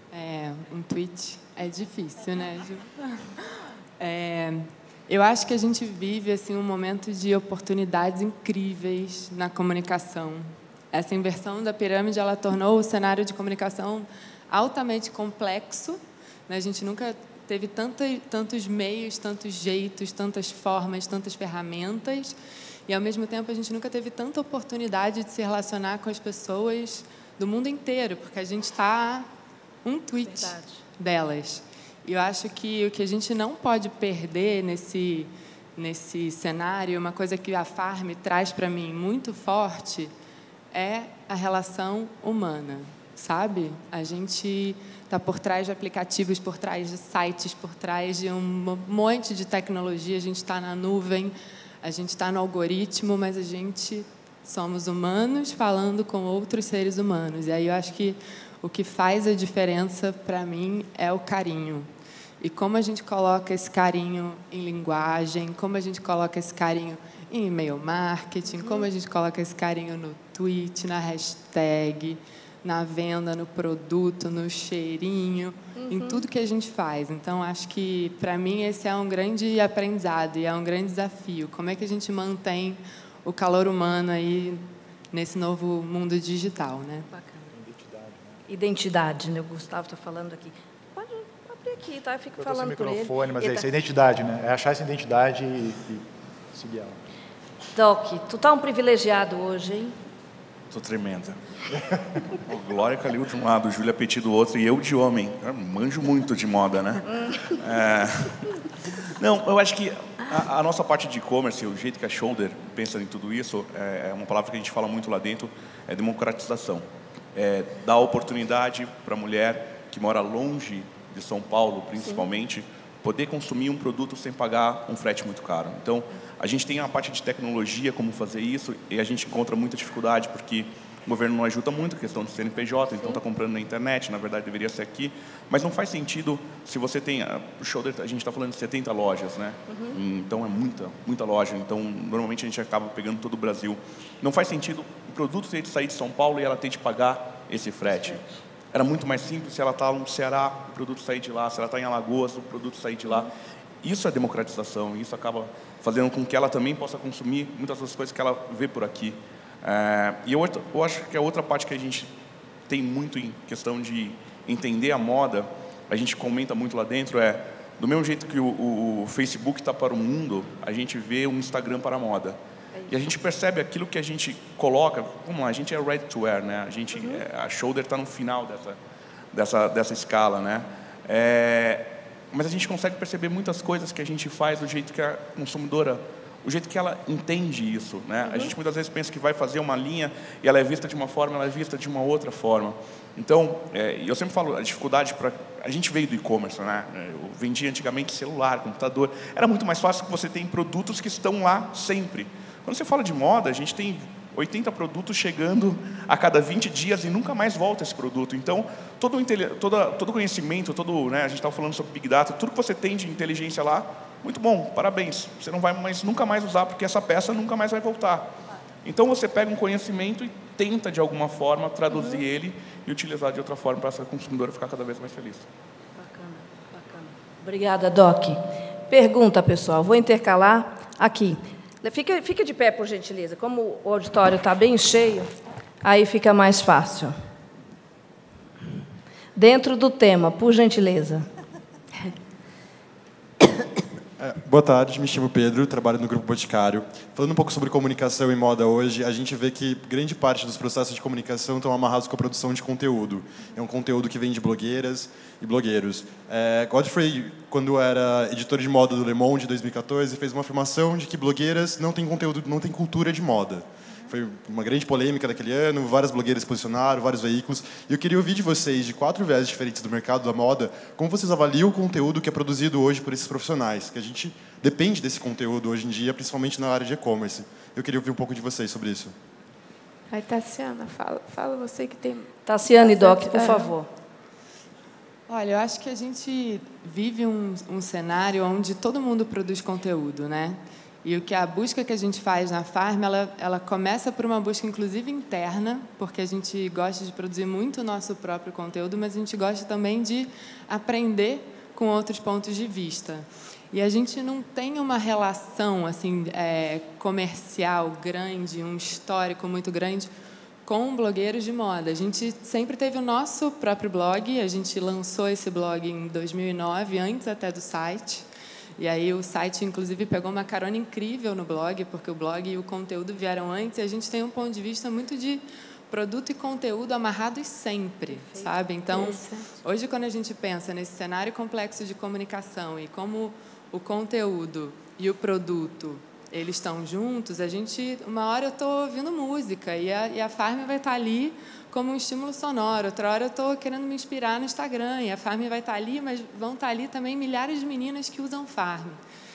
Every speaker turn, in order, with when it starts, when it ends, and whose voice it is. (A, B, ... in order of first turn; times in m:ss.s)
0:00.1-0:03.2 A
0:04.0-0:22.4 A
0:22.9-0:29.3 A
0:29.8-0:40.1 A
0:30.3-0:30.7 B
0:40.7-1:01.9 A
1:02.4-1:27.1 A
1:08.6-1:08.9 B
1:15.8-1:16.3 B
1:27.1-1:27.4 B
1:27.5-1:28.4 C
1:28.5-1:33.7 B
1:32.4-1:37.0 C
1:37.8-1:40.0 B
1:40.7-1:41.4 D
1:42.4-1:48.5 D
1:49.2-2:33.3 D
2:19.7-2:20.0 B
2:33.8-2:42.1 D
2:42.7-2:52.4 D
2:52.9-2:58.8 D
2:59.3-3:45.5 D
3:08.2-3:08.5 B
3:46.0-3:55.3 B
3:55.8-3:57.2 B
3:59.4-4:01.3 B
4:04.2-4:39.1 E
4:40.1-4:43.8 F
4:42.5-4:43.9 B
4:45.3-5:10.1 A
5:10.6-5:18.3 A
5:18.8-5:49.0 A
5:28.1-5:29.5 F